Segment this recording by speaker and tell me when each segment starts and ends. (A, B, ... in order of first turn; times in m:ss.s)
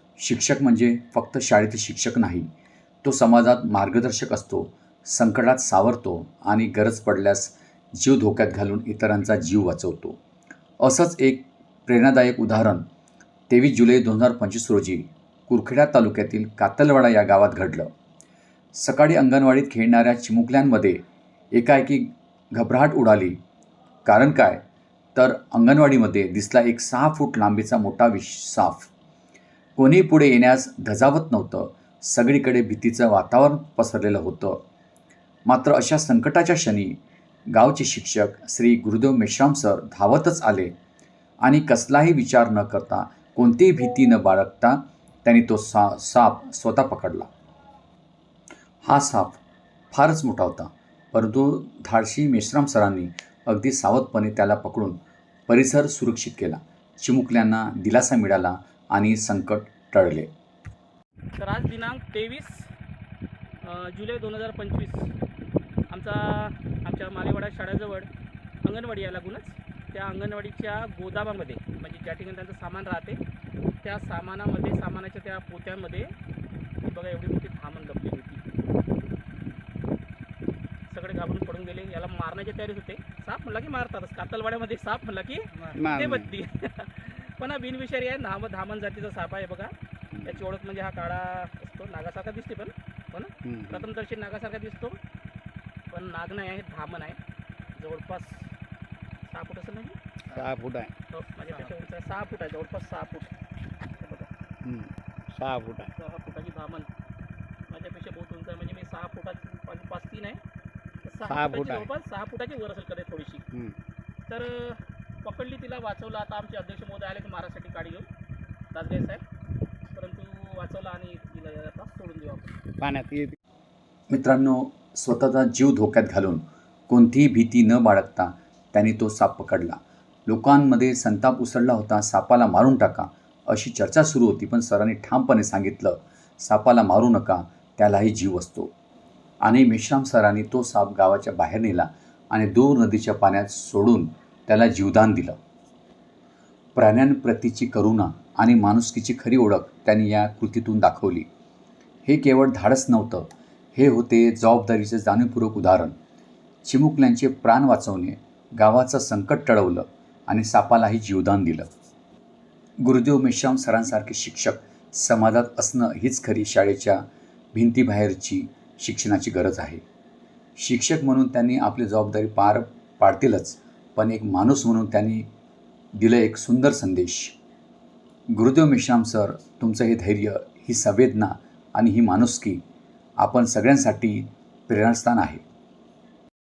0:00.2-0:02.5 A
0:03.0-0:10.2 A
0:10.8-0:12.8 A
0:13.5-0:17.9 A
0:18.7-0:21.0 A
0:21.5-0:23.4 A
0:24.0-0:24.6 A
0:25.2-0:28.9 A
0:29.8-0:34.6 A
0:35.4-0:37.0 A
0:37.5-0:40.7 A
0:41.4-0:47.3 A
0:48.8-1:00.3 A
1:01.4-1:02.7 B
1:03.6-1:05.1 B
1:05.9-1:08.1 B
1:08.6-1:13.2 B
1:13.8-1:16.1 B
1:16.8-1:18.4 B
1:20.9-1:29.7 B
1:25.7-1:26.3 C
1:30.1-1:30.4 C
1:30.2-1:35.0 B
1:33.4-1:33.9 C
1:35.9-1:37.2 B
1:37.8-1:38.5 B
1:39.3-1:40.0 B
1:40.3-1:40.9 C
1:41.1-1:43.3 B
1:44.0-1:44.3 B
1:44.6-1:45.9 C
1:46.0-1:46.9 B
1:47.7-1:50.4 B
1:51.0-1:53.4 B
1:51.3-1:51.9 C
1:54.3-1:58.1 B
1:58.7-1:59.2 B
1:59.9-2:02.6 B
2:02.8-2:03.4 C
2:04.1-2:18.7 A
2:19.4-2:25.4 A
2:26.8-2:31.3 A
2:32.1-2:35.9 A
2:36.6-2:41.7 A
2:42.8-2:49.8 A
2:50.6-2:55.3 A
2:56.0-2:57.4 A
2:58.3-3:02.6 A
3:03.2-3:05.4 A